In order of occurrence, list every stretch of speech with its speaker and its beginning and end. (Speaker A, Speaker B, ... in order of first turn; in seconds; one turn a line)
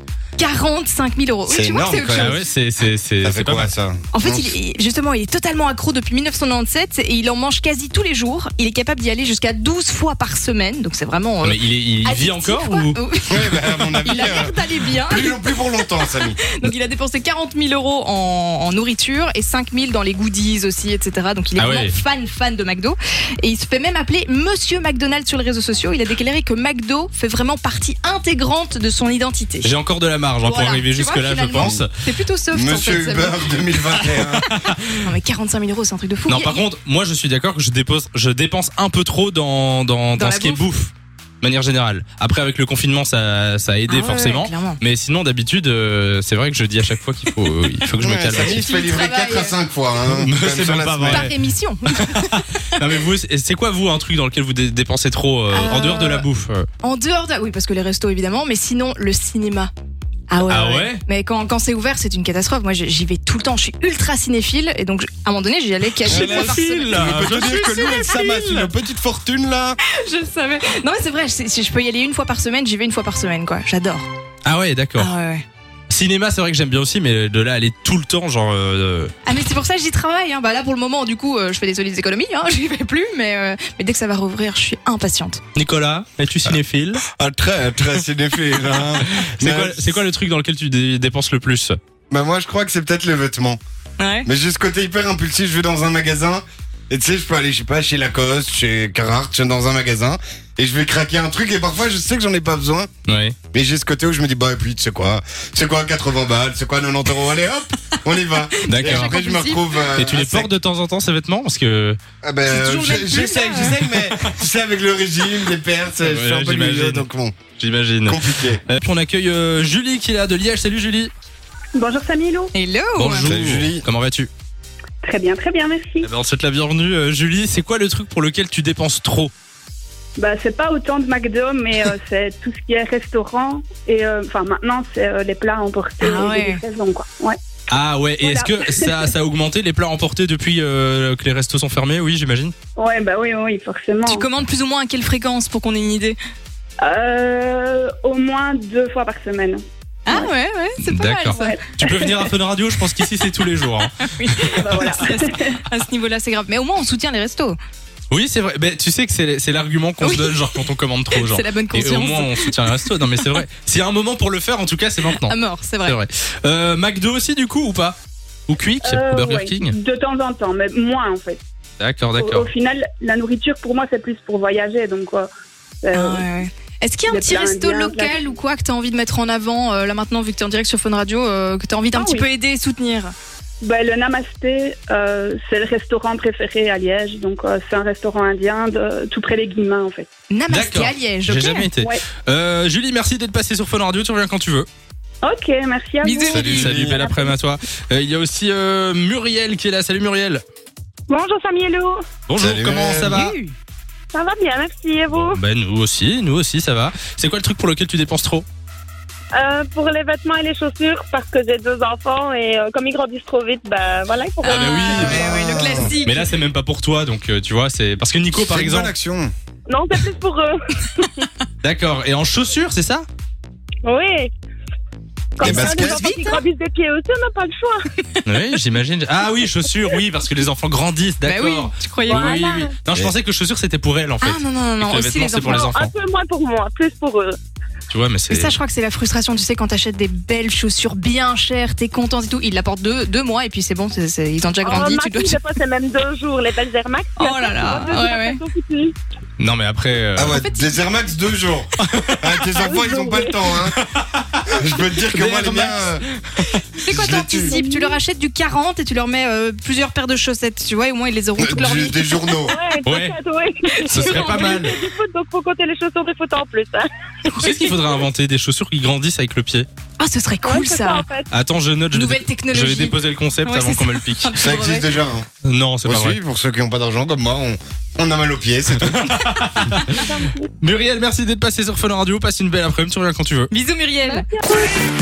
Speaker A: 0.4-2.4
Speaker B: 1.5-2.3
Speaker C: 2.1-3.7
Speaker B: 3.2-4.5
Speaker A: 4.1-15.6
Speaker C: 11.4-13.0
Speaker B: 13.3-16.4
Speaker A: 16.5-29.7
Speaker C: 21.6-21.9
Speaker C: 29.6-31.9
Speaker A: 30.4-33.6
Speaker B: 31.5-31.8
Speaker B: 32.5-34.5
Speaker C: 34.1-35.0
Speaker A: 35.0-36.6
Speaker C: 36.3-48.7
Speaker A: 40.1-40.6
Speaker A: 43.9-44.8
Speaker B: 48.0-51.3
Speaker A: 48.5-49.5
Speaker C: 50.0-51.4
Speaker A: 51.1-52.6
Speaker C: 51.9-56.7
Speaker A: 55.5-56.2
Speaker A: 56.8-59.7
Speaker A: 60.3-68.2
Speaker C: 60.5-61.0
Speaker C: 66.0-68.6
Speaker B: 66.1-69.8
Speaker A: 69.9-74.1
Speaker C: 74.4-75.1
Speaker A: 75.0-75.4
Speaker C: 75.9-79.1
Speaker A: 79.2-85.4
Speaker C: 85.5-87.0
Speaker B: 87.1-90.0
Speaker C: 88.7-91.8
Speaker B: 92.1-93.6
Speaker A: 94.0-94.3
Speaker B: 94.2-102.9
Speaker C: 103.0-103.3
Speaker B: 103.5-110.5
Speaker A: 108.6-109.7
Speaker C: 108.7-109.1
Speaker C: 109.9-112.0
Speaker B: 112.2-117.4
Speaker A: 112.5-113.8
Speaker C: 116.0-121.1
Speaker B: 118.0-118.6
Speaker D: 121.8-122.5
Speaker A: 122.5-123.3
Speaker C: 123.0-124.3
Speaker B: 123.2-123.9
Speaker D: 125.0-126.0
Speaker C: 126.0-129.3
Speaker D: 130.2-137.4
Speaker A: 136.0-136.6
Speaker C: 137.7-142.5
Speaker D: 138.2-139.1
Speaker D: 142.8-144.2
Speaker A: 144.0-146.2
Speaker D: 146.8-149.6
Speaker A: 150.1-151.6
Speaker C: 150.9-154.6
Speaker D: 151.3-152.2
Speaker A: 154.2-157.6
Speaker D: 154.5-155.6
Speaker C: 158.1-169.7
Speaker A: 160.0-160.6
Speaker A: 161.1-163.3
Speaker A: 165.1-166.0
Speaker D: 168.8-171.4
Speaker C: 171.8-172.5
Speaker D: 172.2-175.3
Speaker D: 175.8-176.2
Speaker A: 175.9-183.1
Speaker D: 177.1-178.3
Speaker D: 181.9-182.2
Speaker D: 183.6-190.1
Speaker A: 190.3-191.7
Speaker C: 190.5-194.7
Speaker D: 191.8-192.0
Speaker D: 195.2-197.3
Speaker A: 196.0-196.8
Speaker B: 196.3-197.0
Speaker C: 196.3-200.4
Speaker E: 201.1-202.0
Speaker C: 202.3-203.3
Speaker B: 202.4-203.2
Speaker A: 203.1-203.5
Speaker E: 204.1-205.4
Speaker C: 205.1-208.4
Speaker E: 209.3-215.1
Speaker A: 214.4-216.3
Speaker C: 214.5-215.3
Speaker B: 214.9-215.9
Speaker C: 216.0-218.9
Speaker B: 218.3-219.3
Speaker E: 219.7-221.2
Speaker C: 221.6-223.1
Speaker E: 223.8-224.3
Speaker E: 225.3-227.8
Speaker B: 225.4-226.0
Speaker A: 225.4-226.4
Speaker A: 228.0-228.6
Speaker C: 228.2-235.9
Speaker A: 231.2-232.4
Speaker E: 232.1-232.7
Speaker A: 234.2-235.7
Speaker E: 235.4-237.4
Speaker C: 237.9-238.5
Speaker A: 238.3-245.4
Speaker E: 244.6-248.9
Speaker A: 247.2-248.4
Speaker C: 249.4-250.4
Speaker B: 250.2-253.8
Speaker A: 250.3-250.7
Speaker C: 251.8-252.3
Speaker E: 252.6-253.3
Speaker C: 253.8-254.4
Speaker B: 254.4-256.0
Speaker C: 255.1-256.6
Speaker A: 256.8-262.1
Speaker B: 256.9-257.6
Speaker E: 257.4-257.9
Speaker B: 261.4-262.6
Speaker E: 262.4-266.9
Speaker C: 262.8-263.1
Speaker A: 263.7-264.7
Speaker C: 263.9-264.7
Speaker C: 267.3-269.7
Speaker A: 270.0-271.0
Speaker E: 270.4-271.3
Speaker C: 271.3-274.3
Speaker A: 271.9-274.9
Speaker B: 274.4-275.3
Speaker C: 275.4-276.2
Speaker B: 275.8-279.1
Speaker C: 278.9-280.0
Speaker E: 279.9-280.5
Speaker C: 280.6-283.5
Speaker A: 283.5-284.2
Speaker E: 284.0-284.7